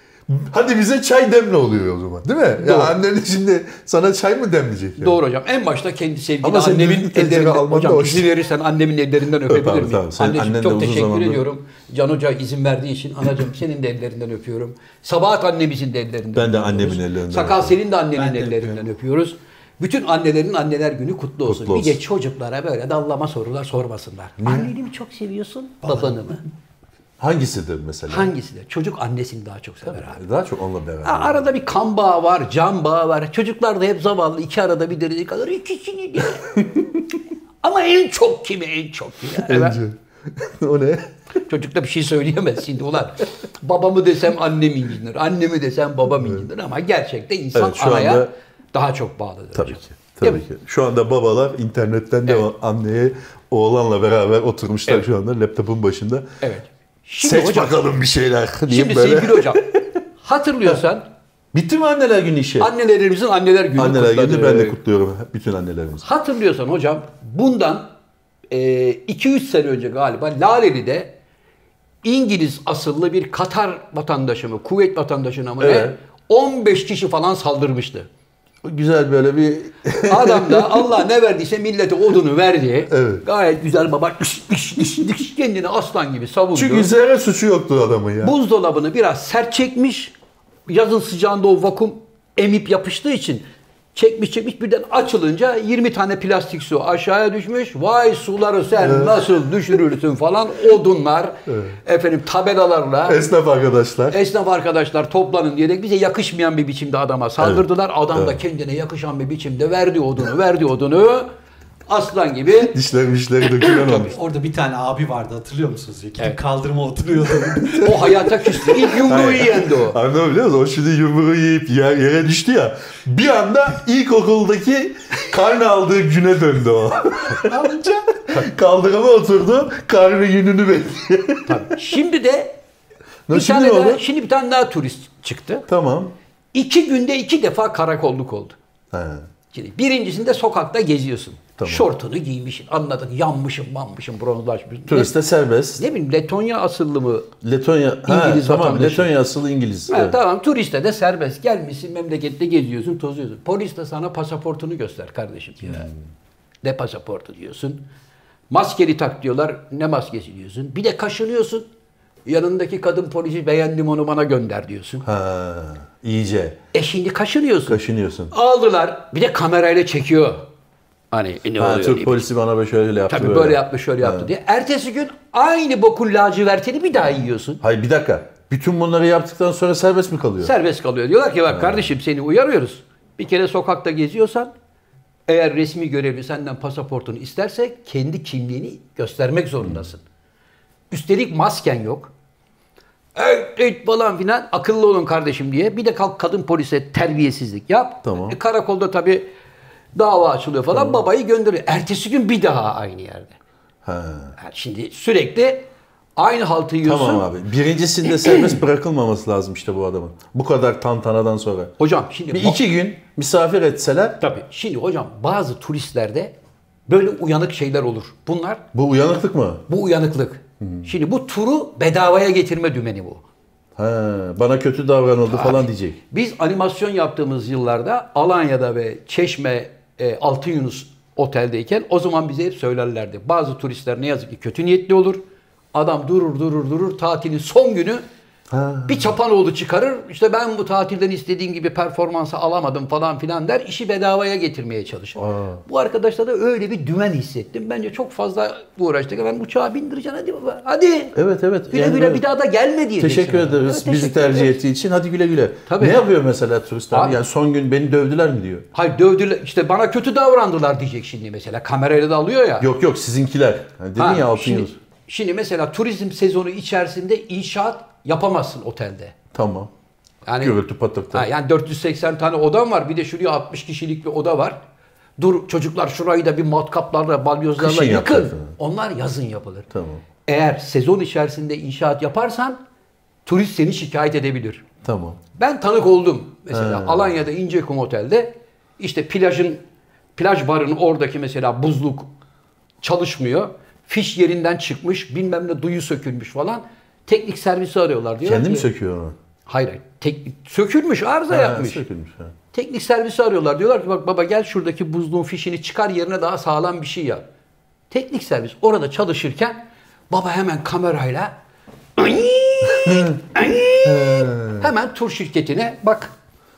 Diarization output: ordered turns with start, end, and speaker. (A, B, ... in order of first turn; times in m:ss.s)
0:00.3-0:05.2 A
0:02.6-0:03.0 B
0:05.0-0:26.4 B
0:06.4-0:08.3 A
0:09.5-0:11.4 A
0:16.4-0:17.8 A
0:18.2-0:18.8 C
0:21.5-0:22.0 A
0:24.4-0:24.7 A
0:27.2-0:28.3 A
0:28.1-0:30.2 B
0:29.9-0:31.5 A
0:31.0-0:36.6 B
0:36.5-0:36.8 A
0:37.6-0:39.8 B
0:39.4-0:41.1 A
0:41.4-0:50.4 B
0:46.2-0:46.4 A
0:47.6-0:48.3 A
0:49.6-0:56.3 A
0:56.4-0:57.8 B
0:57.2-0:59.9 A
0:58.7-0:59.6 B
1:00.2-1:01.0 B
1:01.5-1:02.7 A
1:02.6-1:04.8 B
1:03.8-1:06.0 A
1:06.0-1:07.9 B
1:08.5-1:11.1 B
1:12.0-1:18.1 B
1:15.6-1:16.0 A
1:18.6-1:20.9 A
1:20.0-1:26.9 B
1:22.9-1:23.2 A
1:26.5-1:28.4 A
1:28.2-1:30.1 B
1:30.7-1:33.4 B
1:34.0-1:43.2 B
1:38.8-1:39.3 A
1:41.5-1:41.8 A
1:43.1-1:44.2 A
1:44.1-1:51.3 B
1:47.4-1:48.4 A
1:51.9-1:52.8 B
1:52.6-1:54.2 A
1:53.6-1:54.1 B
1:54.1-1:58.9 C
1:57.8-2:00.0 B
1:59.0-2:11.8 A
2:07.4-2:08.2 C
2:11.5-2:12.6 B
2:13.3-2:14.0 A
2:13.3-2:15.7 B
2:15.7-2:16.1 A
2:16.5-2:18.6 B
2:18.9-2:19.3 A
2:19.5-2:25.2 B
2:21.6-2:21.9 A
2:24.9-2:25.8 A
2:25.8-2:27.3 B
2:27.4-2:30.2 A
2:28.1-2:29.1 B
2:29.9-2:35.9 B
2:35.7-2:35.9 A
2:36.6-2:37.8 B
2:38.5-2:41.7 B
2:42.3-2:45.0 B
2:45.0-2:46.6 A
2:46.7-2:47.8 B
2:47.7-2:48.3 A
2:48.3-2:50.5 B
2:51.1-2:52.2 B
2:51.6-2:54.3 A
2:53.1-2:57.6 B
2:57.6-3:00.6 A
3:00.4-3:04.5 B
3:01.5-3:01.9 A
3:05.3-3:10.0 B
3:10.9-3:12.1 B
3:13.2-3:19.3 B
3:18.0-3:18.4 A
3:20.0-3:23.4 B
3:20.7-3:21.0 A
3:23.8-3:24.3 A
3:24.4-3:27.3 B
3:26.8-3:31.7 A
3:31.8-3:32.6 B
3:32.3-3:34.2 A
3:34.2-3:36.3 B
3:36.9-3:38.6 B
3:38.7-3:39.6 A
3:39.7-3:43.2 B
3:40.6-3:40.9 A
3:43.8-3:46.0 A
3:45.3-3:55.2 B
3:55.7-3:58.0 B
3:58.5-3:59.1 A
3:58.9-4:11.2 B
4:05.2-4:05.6 A
4:11.2-4:12.2 A
4:11.7-4:14.6 B
4:13.0-4:18.7 A
4:15.7-4:16.1 B
4:16.9-4:17.2 B
4:18.7-4:22.7 B
4:22.6-4:24.8 A
4:24.0-4:29.1 B
4:29.3-4:29.7 A
4:30.2-4:30.6 B
4:30.4-4:31.3 A
4:31.1-4:34.6 B
4:35.2-4:39.7 B
4:37.6-4:38.5 A
4:39.7-4:40.0 A
4:40.3-4:42.6 B
4:43.3-4:44.6 B
4:44.8-4:45.2 A
4:45.4-4:49.6 B
4:46.5-4:47.1 A
4:50.2-4:52.1 B
4:52.8-4:58.7 B
4:58.2-4:59.2 A
4:59.5-5:01.8 B
5:01.3-5:02.3 A
5:02.5-5:07.2 B
5:07.9-5:11.3 B
5:12.0-5:16.1 B
5:12.8-5:13.2 A
5:13.8-5:14.7 A